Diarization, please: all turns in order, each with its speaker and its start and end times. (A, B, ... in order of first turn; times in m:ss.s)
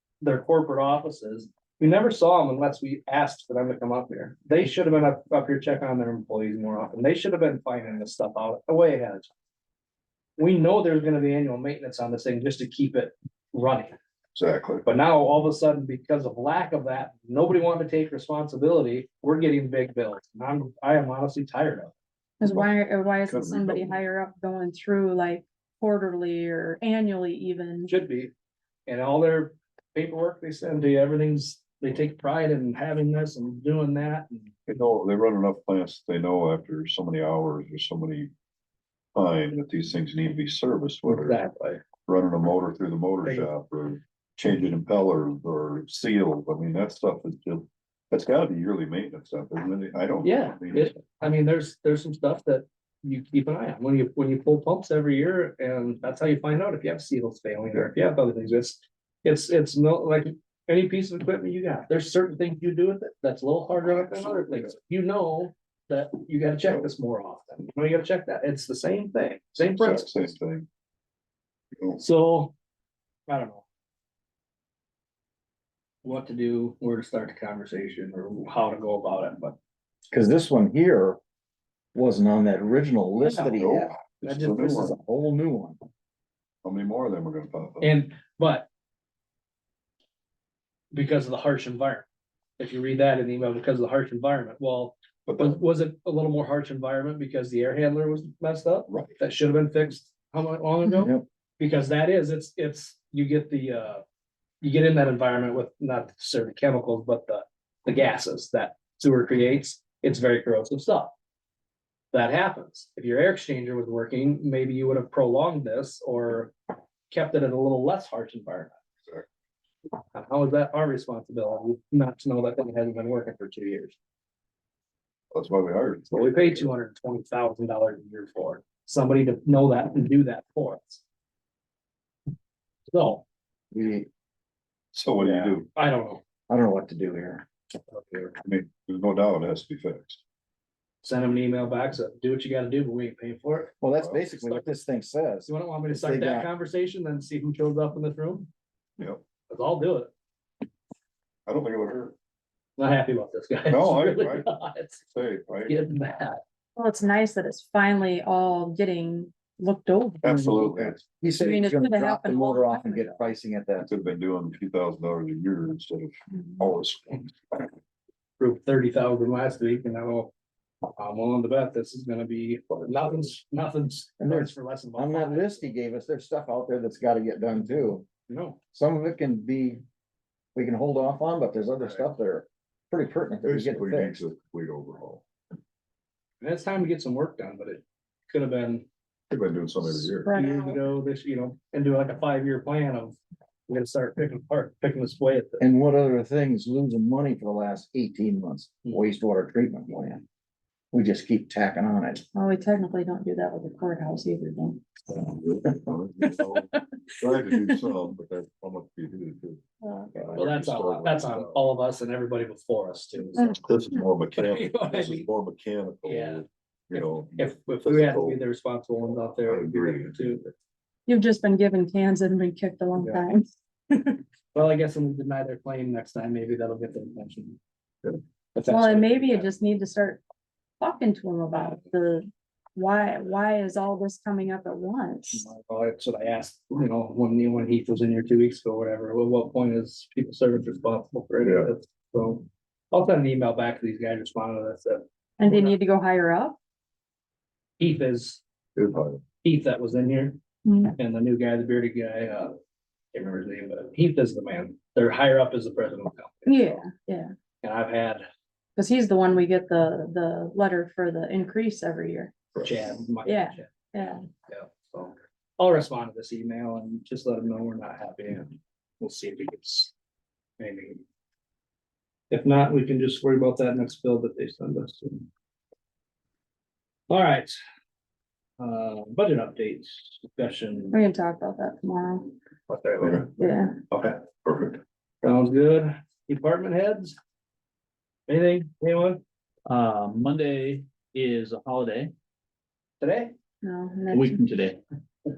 0:00.2-0:09.3 A
0:10.4-0:14.0 A
0:14.4-0:14.8 B
0:14.8-0:21.9 A
0:22.4-0:27.9 C
0:23.2-0:24.0 B
0:27.9-0:28.3 A
0:28.9-0:34.5 A
0:34.7-0:38.3 B
0:39.2-0:41.4 B
0:41.1-0:41.8 A
0:42.1-0:51.0 B
0:43.2-0:43.5 A
0:50.2-1:10.2 A
1:03.9-1:04.6 B
1:09.8-1:10.7 B
1:12.0-1:12.5 A
1:13.3-1:13.6 A
1:16.0-1:19.6 A
1:20.1-1:21.2 D
1:22.0-1:23.9 D
1:23.2-1:23.6 A
1:23.6-1:24.9 B
1:24.2-1:24.9 A
1:24.5-1:25.8 D
1:26.6-1:27.9 B
1:27.8-1:28.7 A
1:30.9-1:32.1 A
1:32.6-1:44.0 A
1:35.3-1:35.6 B
1:38.9-1:39.2 B
1:41.0-1:41.2 D
1:44.6-1:51.1 A
1:52.1-1:56.6 A
1:57.1-1:58.8 A
2:00.1-2:04.0 A
2:05.3-2:06.7 B
2:06.1-2:11.0 A
2:12.9-2:13.2 A
2:13.7-2:14.1 D
2:14.9-2:15.7 B
2:15.2-2:15.6 D
2:15.8-2:16.2 A
2:16.5-2:17.5 D
2:17.9-2:18.4 A
2:18.4-2:20.2 B
2:21.0-2:23.8 A
2:23.8-2:26.5 D
2:24.0-2:24.3 B
2:24.4-2:24.7 A
2:25.5-2:28.5 A
2:29.5-2:30.1 A
2:31.5-2:32.2 B
2:32.8-2:35.0 A
2:33.7-2:34.5 B
2:35.1-2:35.8 B
2:35.6-2:36.4 A
2:36.8-2:43.2 C
2:40.2-2:41.0 B
2:41.0-2:43.9 D
2:43.8-2:47.7 B
2:48.4-2:50.3 A
2:51.0-2:55.7 A
2:52.7-2:53.3 B
2:54.2-2:58.0 D
2:58.3-2:58.6 A
2:58.7-2:59.8 D
3:00.6-3:04.2 D
3:01.8-3:02.1 B
3:03.4-3:05.2 B
3:06.4-3:08.9 A
3:09.3-3:10.3 B
3:10.0-3:10.8 C
3:10.3-3:13.2 A
3:13.7-3:15.6 A
3:15.6-3:20.2 D
3:20.9-3:22.2 D
3:22.4-3:24.8 C
3:25.1-3:31.7 B
3:26.4-3:26.7 C
3:29.8-3:30.1 C
3:30.4-3:33.6 A
3:33.4-3:34.0 C
3:33.6-3:38.4 B
3:34.4-3:35.3 A
3:36.0-3:40.5 A
3:39.1-3:40.5 B
3:41.1-3:44.0 C
3:44.5-3:47.6 A
3:48.6-3:49.5 A
3:48.7-3:50.2 C
3:50.8-3:55.5 C
3:55.3-4:05.7 A
4:01.4-4:01.7 B
4:05.4-4:06.6 C
4:07.8-4:08.4 A
4:08.8-4:09.2 B
4:09.4-4:10.4 A
4:10.6-4:11.0 C
4:11.0-4:12.6 A
4:13.1-4:16.8 A
4:16.5-4:17.3 C
4:17.6-4:18.2 A
4:18.8-4:22.4 C
4:22.6-4:23.7 A
4:23.3-4:24.2 C
4:24.3-4:29.9 A
4:30.6-4:31.0 A
4:32.3-4:35.3 A
4:37.1-4:37.6 A
4:38.6-4:41.0 A
4:40.9-4:42.3 C
4:42.7-4:44.2 A
4:43.0-4:43.3 B
4:43.4-4:43.8 C
4:44.4-4:44.8 B
4:45.2-4:47.2 A
4:48.3-4:49.2 A
4:49.7-4:52.1 E
4:53.0-4:53.3 A
4:53.6-4:54.4 C
4:54.1-4:54.8 E